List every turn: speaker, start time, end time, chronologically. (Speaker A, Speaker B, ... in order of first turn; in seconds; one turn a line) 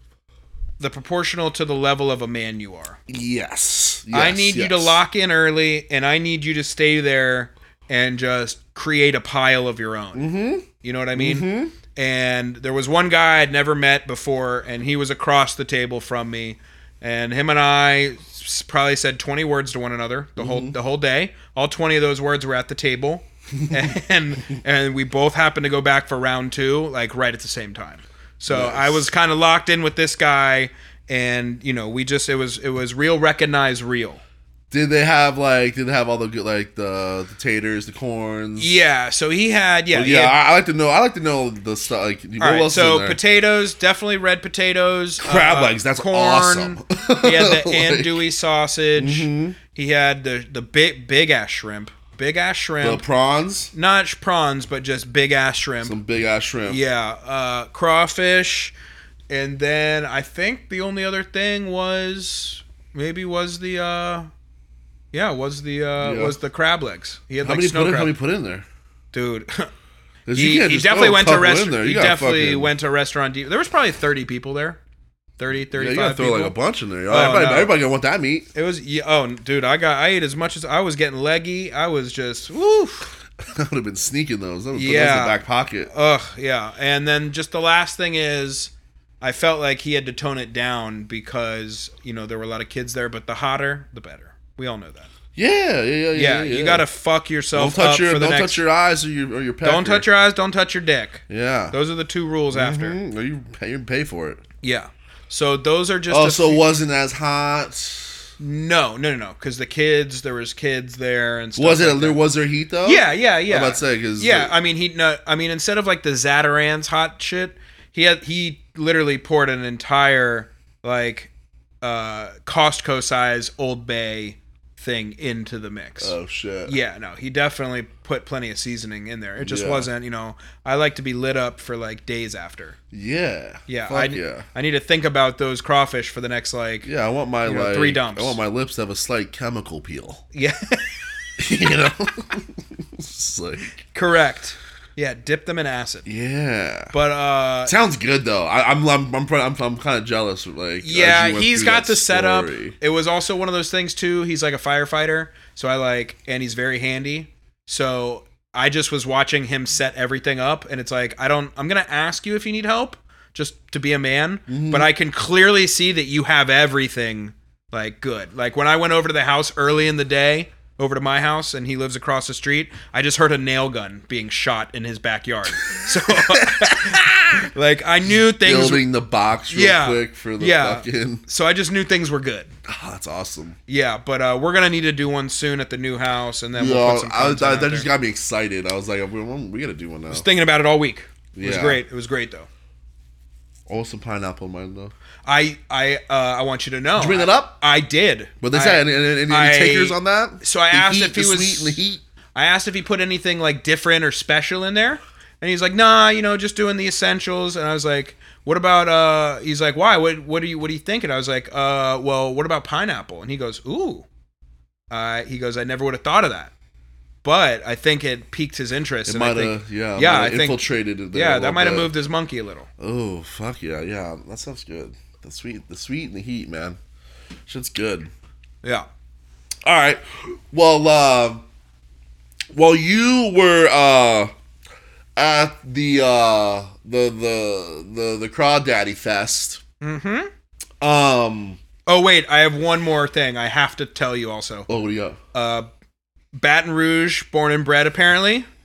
Speaker A: 0.8-3.0
Speaker B: 3.1-5.0
Speaker A: 4.1-10.3
Speaker B: 10.1-11.7
Speaker A: 10.8-34.2
Speaker B: 20.4-20.8
Speaker B: 23.6-23.9
Speaker B: 28.5-29.1
Speaker B: 34.7-38.8
Speaker A: 38.6-40.4
Speaker B: 39.9-43.2
Speaker A: 42.4-53.0
Speaker B: 45.2-48.2
Speaker B: 49.0-49.6
Speaker B: 52.8-53.7
Speaker A: 53.7-56.0
Speaker B: 55.8-56.8
Speaker A: 56.6-58.7
Speaker A: 59.3-64.3
Speaker A: 65.1-68.1
Speaker B: 66.0-66.4
Speaker B: 67.4-68.7
Speaker A: 69.1-69.7
Speaker B: 70.3-72.7
Speaker A: 70.3-74.8
Speaker A: 75.4-76.5
Speaker B: 75.7-78.5
Speaker A: 77.1-77.7
Speaker A: 78.5-83.1
Speaker B: 83.4-85.9
Speaker A: 84.7-95.1
Speaker B: 95.3-96.8
Speaker A: 96.1-98.6
Speaker B: 97.5-100.1
Speaker A: 99.6-103.0
Speaker B: 101.3-101.8
Speaker B: 102.5-104.4
Speaker A: 104.6-106.7
Speaker B: 106.1-108.3
Speaker A: 108.4-112.2
Speaker B: 111.5-114.5
Speaker A: 112.8-121.3
Speaker A: 121.8-126.1
Speaker B: 126.0-126.8
Speaker A: 126.7-132.8
Speaker B: 129.4-129.9
Speaker B: 132.9-134.4
Speaker A: 133.7-136.9
Speaker B: 136.8-140.2
Speaker A: 137.4-138.4
Speaker A: 140.3-141.1
Speaker B: 141.4-143.7
Speaker A: 143.9-146.1
Speaker B: 146.1-146.9
Speaker A: 146.9-147.7
Speaker B: 147.6-152.8
Speaker A: 150.8-178.9
Speaker B: 164.5-164.9
Speaker B: 175.7-177.4
Speaker B: 178.1-181.2
Speaker A: 179.5-182.5
Speaker B: 182.7-183.6
Speaker A: 183.7-187.9
Speaker B: 186.5-190.3
Speaker A: 190.1-192.5
Speaker B: 191.3-191.8
Speaker B: 193.7-194.9
Speaker A: 195.2-201.8
Speaker B: 196.9-197.6
Speaker B: 198.4-202.0
Speaker A: 202.3-214.1
Speaker A: 214.9-216.5
Speaker A: 217.2-222.7
Speaker B: 219.1-221.9
Speaker B: 222.8-226.8
Speaker B: 227.5-228.1
Speaker B: 229.6-231.4
Speaker B: 232.5-234.3
Speaker B: 235.2-239.6
Speaker A: 239.8-240.3
Speaker B: 240.8-241.6
Speaker A: 241.8-244.7
Speaker B: 244.7-245.2
Speaker A: 245.3-245.7
Speaker A: 246.3-248.5